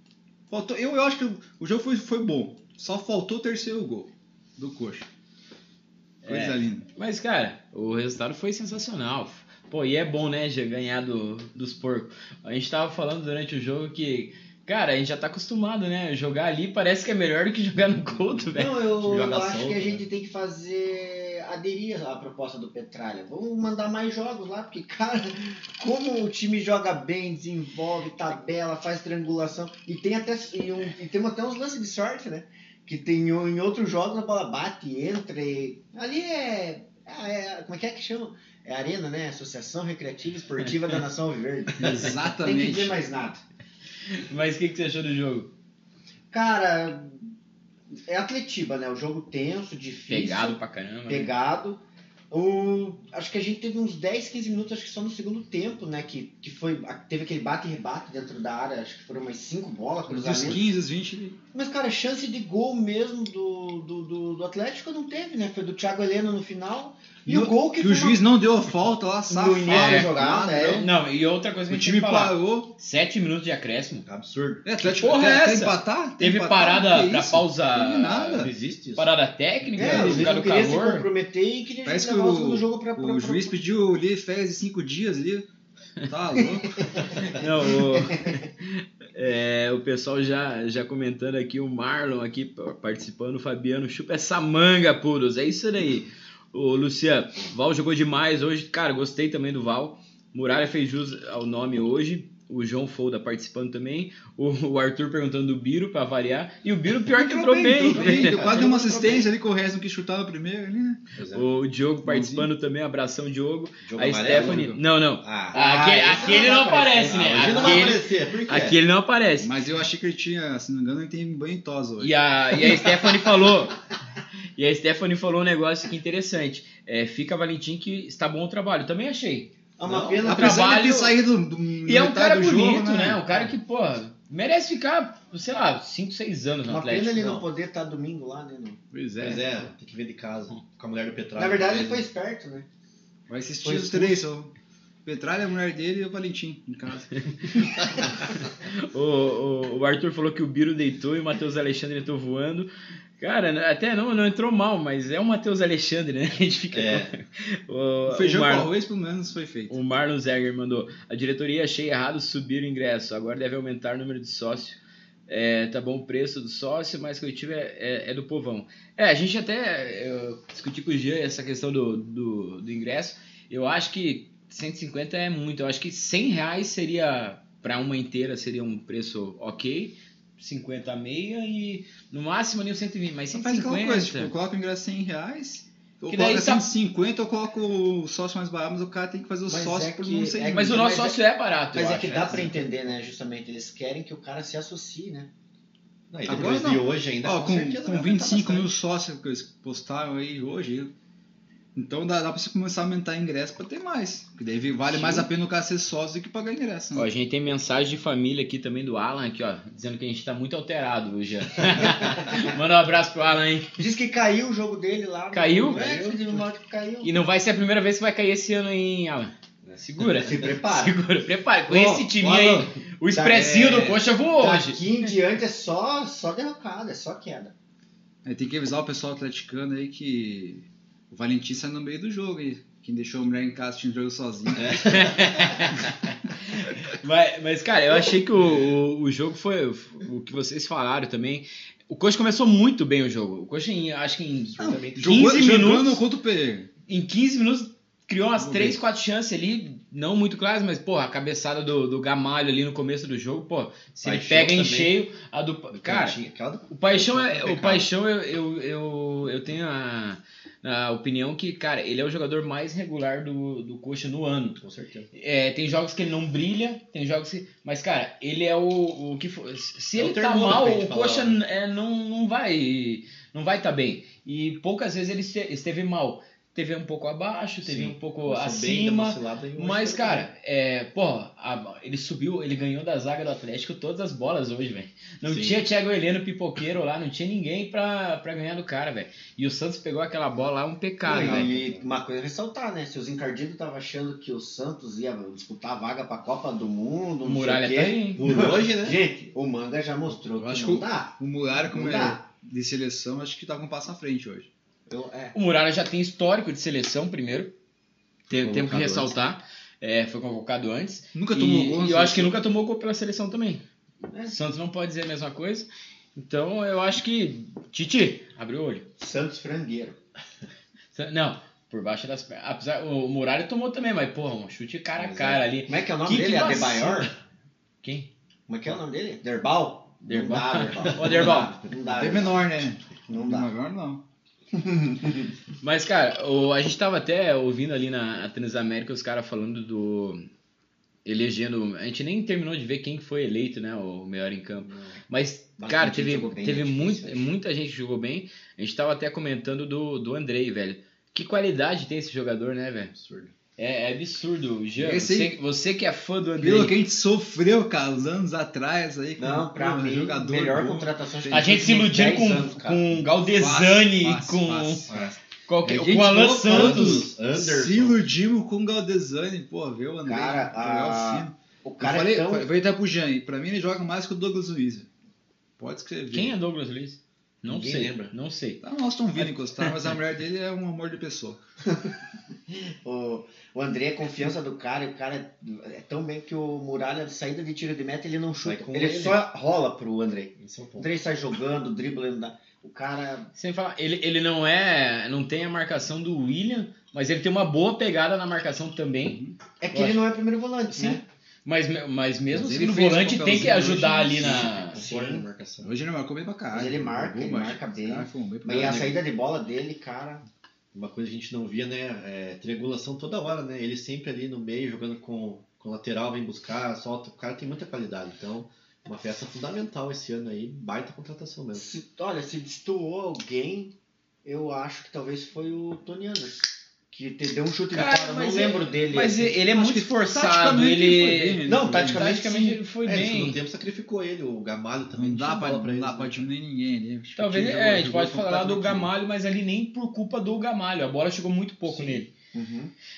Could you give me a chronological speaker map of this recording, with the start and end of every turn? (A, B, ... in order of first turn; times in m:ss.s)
0:00.5-0:05.1 A
0:06.2-0:19.4 B
0:06.3-0:06.9 A
0:18.1-0:20.1 C
0:18.5-0:43.4 D
0:41.8-0:43.0 A
0:44.1-0:45.5 B
0:46.3-0:47.3 D
0:48.0-0:50.6 D
0:50.1-0:51.3 B
0:51.1-1:00.6 D
1:00.1-1:01.4 A
1:01.5-1:08.2 D
1:07.3-1:10.9 A
1:09.3-1:10.9 D
1:09.7-1:10.1 B
1:10.7-1:14.0 B
1:11.7-1:12.7 A
1:14.1-1:14.6 C
1:14.6-1:18.5 A
1:14.8-1:21.1 B
1:18.4-1:19.1 C
1:19.8-1:20.3 A
1:19.8-1:23.6 D
1:21.8-1:25.5 A
1:26.1-1:27.2 A
1:27.3-1:49.3 B
1:27.9-1:28.3 D
1:47.1-1:51.0 A
1:47.9-1:48.6 C
1:51.2-1:51.4 C
1:51.3-1:59.5 B
1:52.0-1:52.5 A
1:53.8-1:54.7 C
1:54.3-1:54.8 A
1:55.2-1:55.6 C
1:55.5-1:58.0 D
1:57.1-1:58.8 C
1:59.4-2:02.1 A
2:02.0-2:03.8 B
2:04.6-2:09.5 B
2:09.8-2:10.7 D
2:09.8-2:10.3 C
2:10.3-2:11.2 B
2:10.3-2:13.2 A
2:11.9-2:17.2 B
2:16.7-2:18.8 D
2:17.2-2:17.5 C
2:18.9-2:19.7 B
2:19.2-2:22.0 C
2:21.4-2:22.7 D
2:23.3-2:24.5 A
2:23.6-2:24.2 D
2:25.0-2:27.2 A
2:28.6-2:38.7 B
2:36.7-2:37.1 C
2:38.1-2:39.8 A
2:39.7-3:04.3 B
3:03.3-3:10.8 A
3:06.1-3:06.7 B
3:09.5-3:11.2 D
3:10.5-3:12.6 B
3:11.7-3:15.3 D
3:16.1-3:18.7 C
3:16.2-3:20.9 A
3:21.8-3:27.1 A
3:24.9-3:25.3 D
3:27.0-3:33.8 B
3:33.8-3:37.1 D
3:35.3-3:35.8 B
3:35.7-3:36.4 C
3:37.0-3:45.1 B
3:40.2-3:41.0 D
3:41.7-3:42.0 D
3:42.2-3:42.7 C
3:43.1-3:47.5 D
3:48.2-3:54.9 A
3:54.6-3:55.4 C
3:54.8-3:56.0 B
3:56.5-4:06.0 B
4:04.6-4:05.0 C
4:04.9-4:06.7 A
4:06.9-4:16.2 B
4:08.4-4:08.8 A
4:14.0-4:15.0 C
4:15.7-4:17.9 C
4:16.7-4:24.6 B
4:24.6-4:25.1 C
4:25.1-4:51.5 B
4:30.0-4:31.4 C
4:37.6-4:40.3 C
4:45.2-4:45.6 C
4:51.0-5:02.2 D
4:51.1-4:51.9 C
4:57.2-4:58.2 B
4:58.2-4:59.0 C
5:00.3-5:04.5 A
5:04.9-5:05.4 D
5:05.3-5:07.5 B
5:08.3-5:13.6 B
5:08.4-5:09.2 C
5:11.1-5:12.4 A
5:14.1-5:14.4 D
5:14.3-5:18.9 B
5:19.0-5:20.0 D
5:20.9-5:27.1 B
5:25.0-5:25.5 C
5:25.7-5:27.2 D
5:27.8-5:28.1 B
5:28.5-5:32.4 D
5:30.0-5:31.5 B
5:31.9-5:34.0 A
5:33.1-5:33.5 D
5:34.5-5:35.3 D
5:35.6-5:40.3 B
5:41.0-5:52.9 B
5:44.6-5:45.0 C
5:45.6-5:47.3 D
5:52.9-5:53.3 C
5:53.6-5:56.8 B
5:54.8-5:55.4 A
5:56.4-6:01.5 A
5:59.2-6:02.9 D
6:01.3-6:04.8 B
6:03.1-6:14.9 A
6:04.9-6:05.2 C
6:05.5-6:07.1 B
6:06.5-6:08.0 C
6:10.1-6:12.5 D
6:15.6-6:16.3 A
6:16.1-6:18.6 B
6:17.5-6:18.1 C
6:18.6-6:21.4 A
6:19.2-6:19.9 B
6:22.5-6:33.3 D
6:28.4-6:29.2 C
6:30.4-6:30.9 C
6:33.4-6:39.2 B
6:39.0-6:39.4 A
6:39.6-6:41.0 D
6:39.7-6:40.0 B
6:40.7-6:44.8 B
6:42.3-6:44.5 A
6:44.2-6:45.7 C
6:44.6-6:45.3 D
6:45.6-6:49.0 A
6:46.5-6:50.2 D
6:48.5-6:48.9 C
6:50.7-7:01.7 C
7:01.5-7:03.7 D
7:04.2-7:09.4 D
7:07.7-7:13.4 B
7:09.5-7:12.0 A
7:11.4-7:12.6 D
7:12.8-7:16.3 C
7:15.0-7:18.9 A
7:17.2-7:22.1 B
7:21.7-7:22.7 D